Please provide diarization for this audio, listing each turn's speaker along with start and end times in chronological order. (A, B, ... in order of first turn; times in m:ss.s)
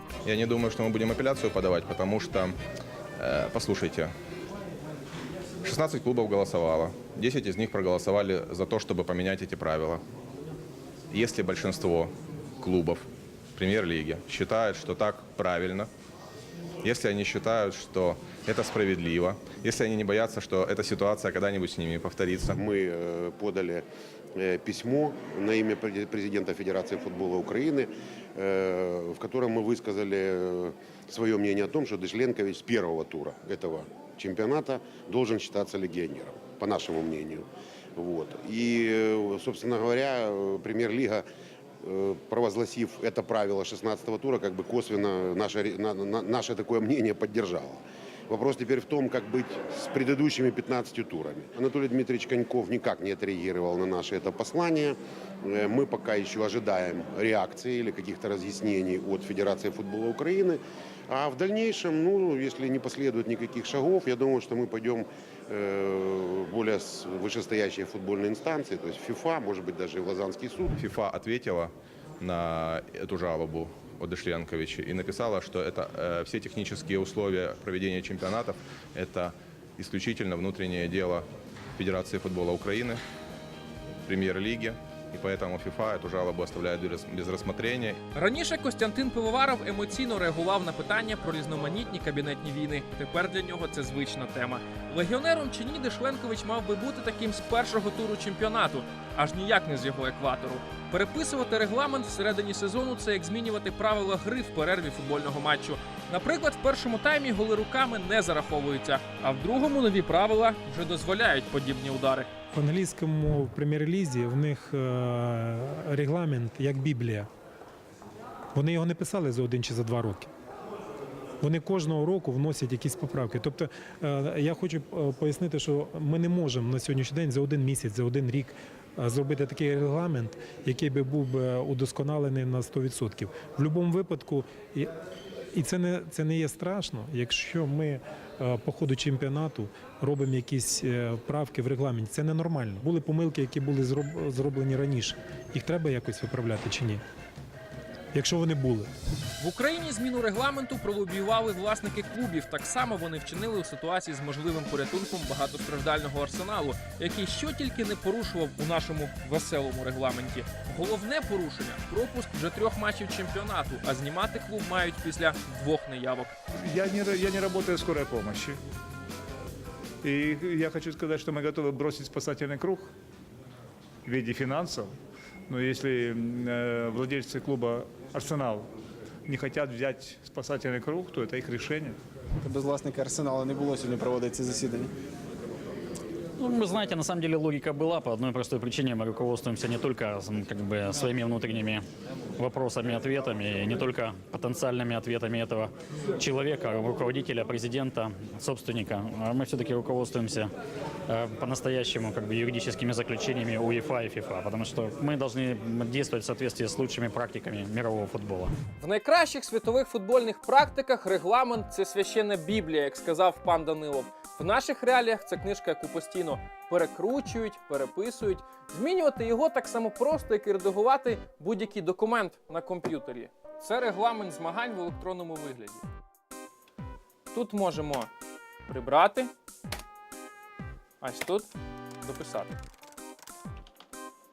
0:00.2-0:02.6 A
0:03.2-0:04.1 A
0:05.6-0:10.0 A
0:11.1-0:15.9 A
0:16.8-0:22.6 A
0:22.6-0:41.2 B
0:41.8-1:10.7 B
1:10.7-1:23.0 A
1:24.0-1:28.0 A
1:28.1-1:52.3 C
1:52.5-1:57.3 D
1:58.5-2:00.3 D
2:01.4-2:14.9 D
2:15.5-2:27.0 D
2:28.1-2:28.9 D
2:29.4-2:46.3 C
2:46.6-2:48.6 E
2:50.0-2:52.9 E
2:54.0-2:54.9 E
2:55.5-2:58.7 E
2:59.3-3:02.0 E
3:02.4-3:04.9 F
3:06.4-3:11.8 G
3:12.4-3:20.5 G
3:21.1-3:28.5 G
3:28.8-3:45.8 C
3:47.3-3:48.1 C
3:48.7-3:49.3 C
3:51.0-3:51.5 C
3:52.0-3:52.6 C